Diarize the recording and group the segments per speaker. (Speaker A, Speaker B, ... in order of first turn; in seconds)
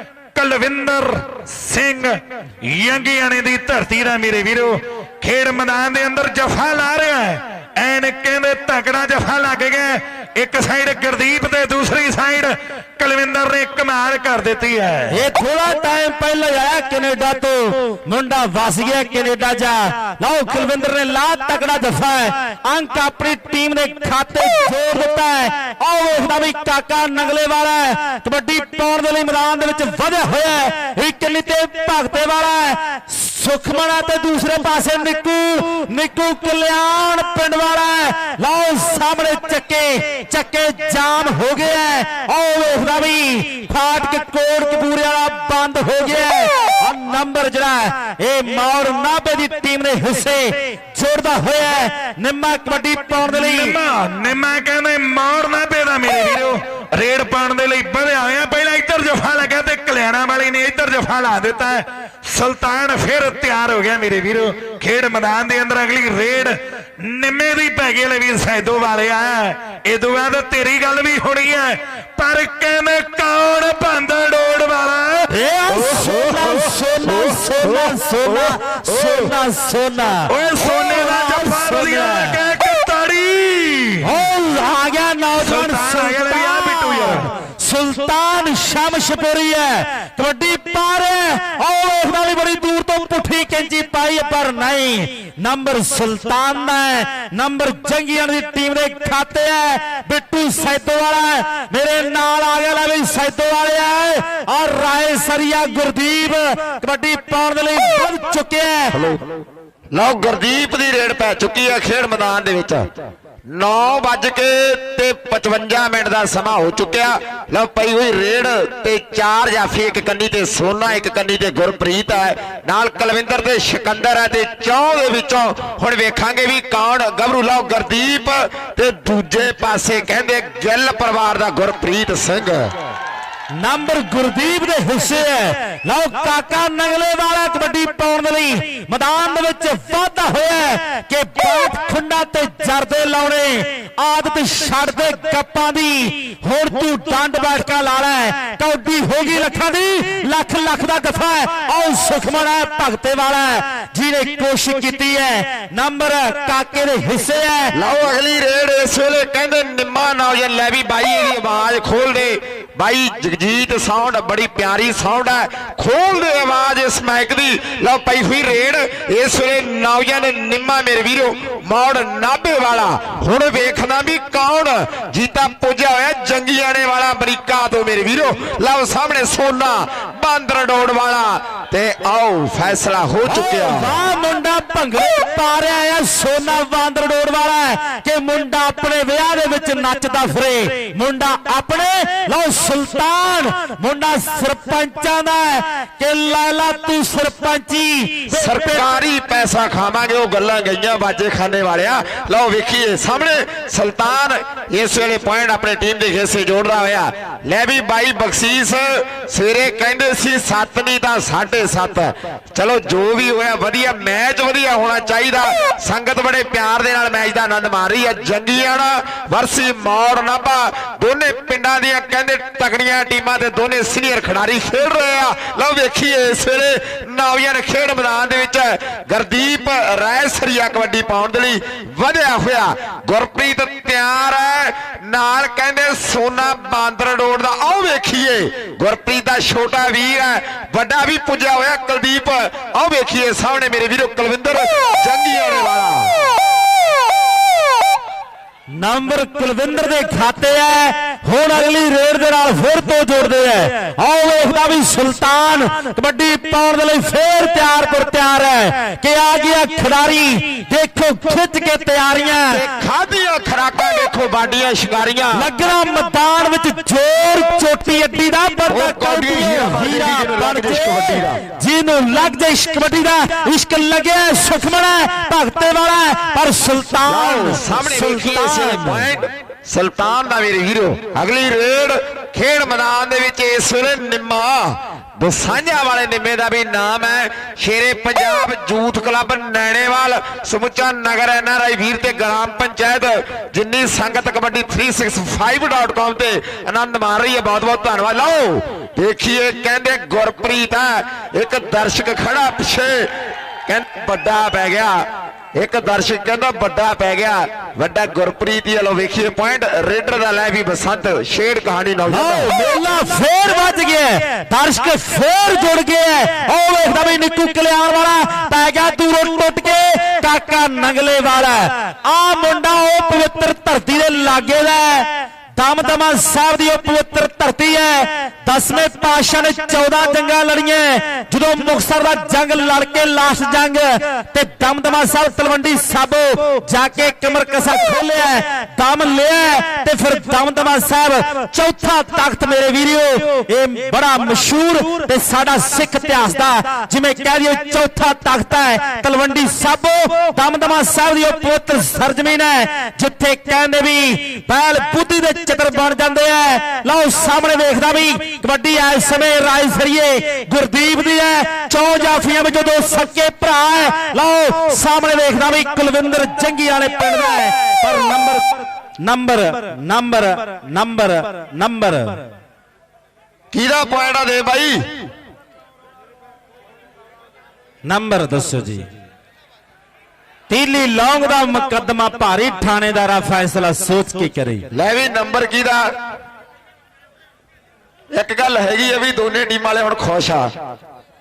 Speaker A: 0.3-15.2, 53.2-75.3, 80.3-84.1, 85.4-87.3
Speaker B: 15.1-53.7, 75.3-82.4, 84.0-108.9, 133.6-157.7, 183.2-198.9, 248.7-262.6, 265.3-279.1, 312.1-372.3, 377.9-378.9, 380.5-384.7
Speaker C: 75.8-79.2, 108.9-109.4, 109.9-112.9, 113.5-132.7, 157.7-183.9, 198.3-246.1, 262.5-265.5, 268.7-271.4, 277.1-303.1, 303.7-305.0, 305.6-312.5, 373.5-374.8, 384.7-385.8, 388.1-390.5